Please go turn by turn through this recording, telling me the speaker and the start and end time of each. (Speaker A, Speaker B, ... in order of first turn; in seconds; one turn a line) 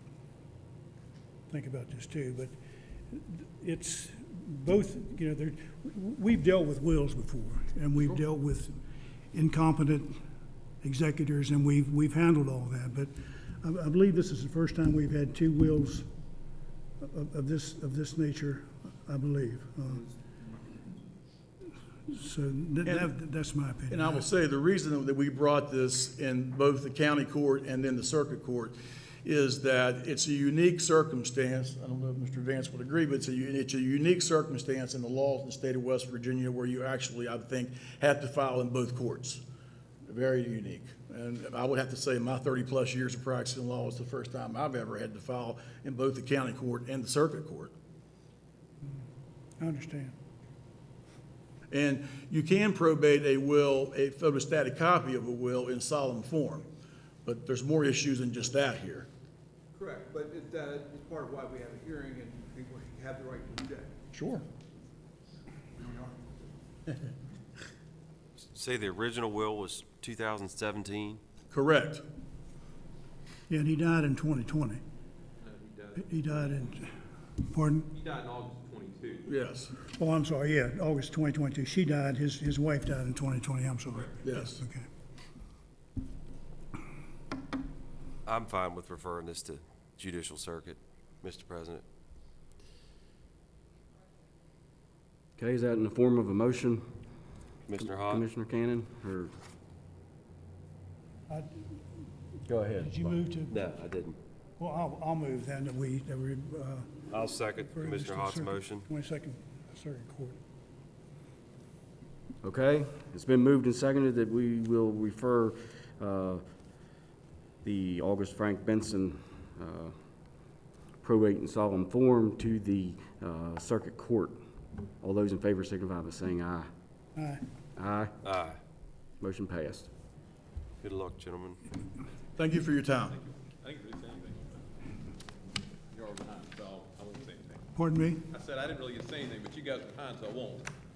Speaker A: 1.5-2.5
Speaker A: 3.1-8.8
Speaker A: 9.3-10.2
Speaker A: 10.8-16.1
Speaker A: 17.0-20.1
Speaker A: 22.1-24.2
Speaker B: 23.9-39.4
Speaker B: 40.0-47.7
Speaker A: 49.6-50.1
Speaker B: 51.7-56.7
Speaker B: 57.2-59.1
Speaker C: 59.7-63.9
Speaker B: 64.1-64.4
Speaker D: 68.4-71.2
Speaker B: 71.5-72.0
Speaker A: 73.5-74.8
Speaker E: 75.4-76.5
Speaker A: 76.0-77.9
Speaker E: 77.9-79.3
Speaker B: 79.3-79.7
Speaker A: 79.8-84.9
Speaker B: 84.2-84.6
Speaker D: 88.2-91.8
Speaker F: 95.4-96.8
Speaker D: 97.7-98.2
Speaker F: 97.8-99.3
Speaker A: 101.3-101.8
Speaker F: 102.5-102.9
Speaker A: 102.8-103.5
Speaker D: 103.5-104.2
Speaker A: 104.6-107.0
Speaker D: 107.1-108.8
Speaker A: 107.6-110.4
Speaker F: 112.4-116.4
Speaker F: 117.6-119.9
Speaker F: 121.0-124.4
Speaker F: 125.0-126.7
Speaker A: 127.2-127.4
Speaker F: 127.8-128.1
Speaker D: 128.2-128.6
Speaker F: 129.2-129.9
Speaker D: 130.8-131.6
Speaker B: 132.3-133.2
Speaker E: 133.1-134.7
Speaker E: 135.9-137.7
Speaker A: 137.7-138.2
Speaker E: 138.3-140.7